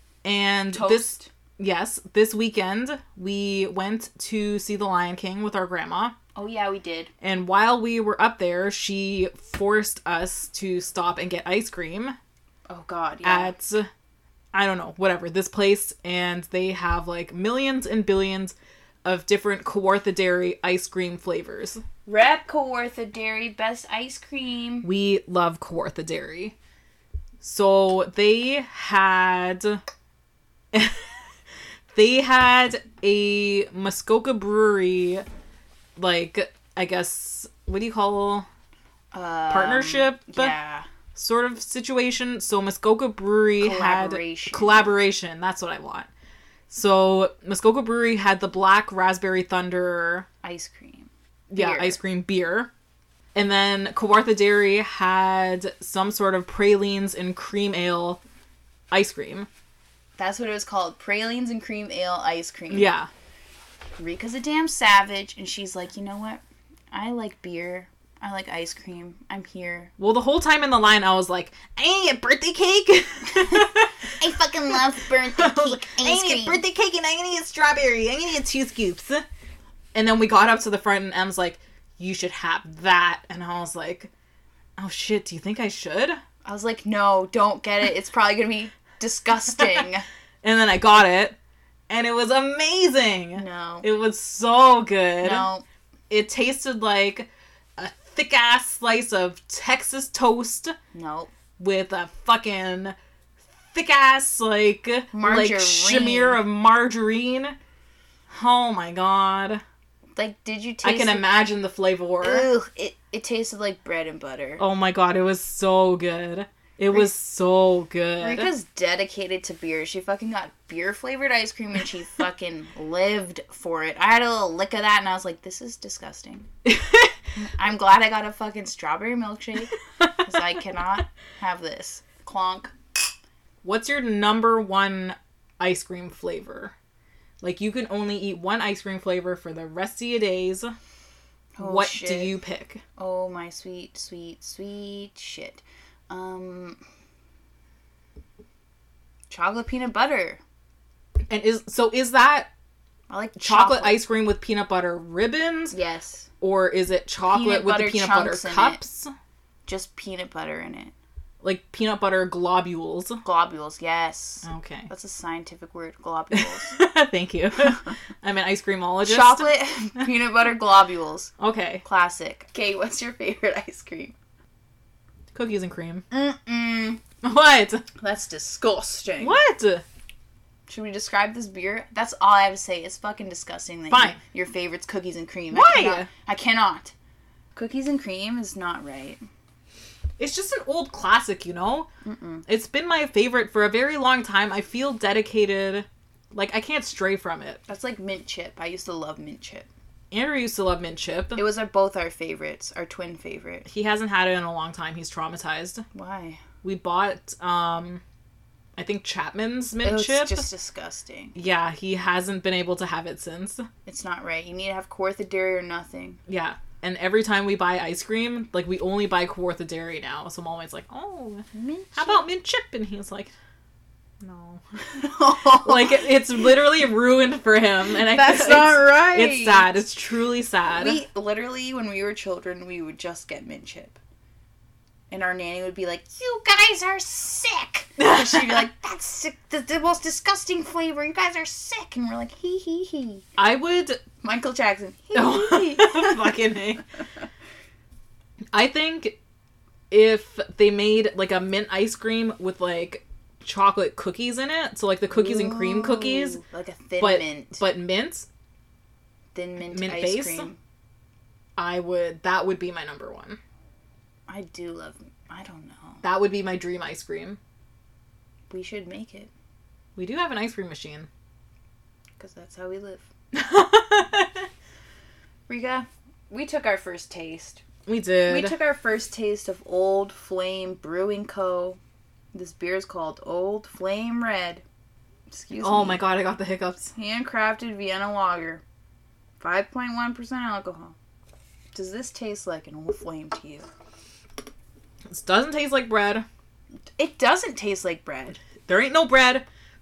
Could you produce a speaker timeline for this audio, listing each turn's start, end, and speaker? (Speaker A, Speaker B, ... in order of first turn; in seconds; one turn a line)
Speaker A: 0.2-6.1
Speaker B: 0.7-1.3
Speaker B: 6.3-7.1
Speaker A: 7.2-12.2
Speaker B: 12.7-13.5
Speaker A: 13.2-13.9
Speaker A: 14.5-21.8
Speaker B: 22.1-24.9
Speaker A: 24.8-26.5
Speaker A: 27.4-29.8
Speaker A: 30.7-31.2
Speaker A: 31.9-35.2
Speaker A: 36.0-38.5
Speaker B: 39.1-40.9
Speaker A: 39.5-40.5
Speaker A: 41.1-46.1
Speaker B: 43.6-44.8
Speaker A: 46.7-50.3
Speaker B: 50.4-52.0
Speaker A: 51.5-52.7
Speaker A: 53.3-58.2
Speaker A: 58.9-59.5
Speaker B: 60.2-62.9
Speaker A: 62.7-63.1
Speaker B: 64.0-69.9
Speaker A: 70.0-74.2
Speaker B: 73.3-76.6
Speaker A: 75.2-79.2
Speaker A: 79.9-84.1
Speaker A: 84.8-86.2
Speaker B: 86.4-90.0
Speaker A: 90.4-91.3
Speaker A: 91.9-95.5
Speaker B: 93.3-93.9
Speaker B: 95.2-95.6
Speaker A: 96.1-100.8
Speaker B: 100.9-101.3
Speaker A: 101.6-103.0
Speaker A: 103.7-107.6
Speaker B: 105.1-106.4
Speaker A: 108.3-109.6
Speaker B: 110.2-111.3
Speaker A: 110.8-112.5
Speaker B: 112.2-114.6
Speaker A: 114.6-118.5
Speaker B: 118.2-126.5
Speaker A: 126.6-127.1
Speaker B: 127.4-132.7
Speaker A: 133.6-136.7
Speaker A: 137.4-140.7
Speaker B: 141.6-142.3
Speaker A: 141.6-142.8
Speaker B: 143.0-146.8
Speaker B: 149.3-150.4
Speaker A: 151.3-152.5
Speaker B: 153.1-154.0
Speaker A: 153.4-155.8
Speaker B: 155.7-156.3
Speaker A: 156.4-159.1
Speaker B: 157.2-158.8
Speaker B: 159.7-160.9
Speaker A: 161.4-163.2
Speaker B: 163.2-166.8
Speaker A: 164.4-164.9
Speaker A: 166.3-169.5
Speaker B: 169.0-171.3
Speaker A: 171.4-171.8
Speaker B: 171.8-174.1
Speaker A: 175.3-176.0
Speaker B: 176.1-177.0
Speaker A: 177.2-177.8
Speaker B: 178.0-179.4
Speaker A: 179.2-179.8
Speaker B: 180.7-186.9
Speaker A: 183.9-184.2
Speaker A: 185.5-186.1
Speaker B: 187.5-189.2
Speaker A: 190.2-191.9
Speaker B: 192.0-192.4
Speaker A: 192.5-197.6
Speaker B: 197.7-199.7
Speaker A: 200.1-201.4
Speaker B: 201.3-203.7
Speaker A: 203.7-205.8
Speaker B: 205.9-206.4
Speaker A: 206.6-208.0
Speaker A: 208.8-210.5
Speaker B: 209.8-211.3
Speaker A: 211.3-213.7
Speaker B: 213.8-216.2
Speaker A: 216.3-223.3
Speaker B: 221.5-222.2
Speaker A: 224.2-224.6
Speaker B: 224.9-226.0
Speaker A: 225.6-231.0
Speaker B: 228.0-229.8
Speaker B: 230.7-234.0
Speaker B: 235.1-243.2
Speaker A: 238.0-238.7
Speaker A: 243.4-244.0
Speaker B: 244.2-246.3
Speaker A: 245.1-246.8
Speaker A: 248.5-249.2
Speaker A: 249.9-256.4
Speaker B: 255.1-257.6
Speaker A: 257.0-258.3
Speaker B: 259.3-260.6
Speaker A: 259.7-260.5
Speaker A: 261.6-263.4
Speaker B: 264.3-266.0
Speaker A: 266.0-267.4
Speaker B: 268.5-269.3
Speaker A: 269.9-271.1
Speaker B: 272.2-273.1
Speaker A: 273.3-274.5
Speaker B: 275.5-277.6
Speaker A: 277.9-278.6
Speaker B: 278.3-281.8
Speaker B: 282.3-284.6
Speaker B: 285.3-286.0
Speaker A: 285.6-286.9
Speaker B: 286.9-288.6
Speaker B: 289.4-290.9
Speaker B: 291.7-293.7
Speaker A: 295.1-296.2
Speaker B: 297.0-298.4
Speaker A: 298.6-299.4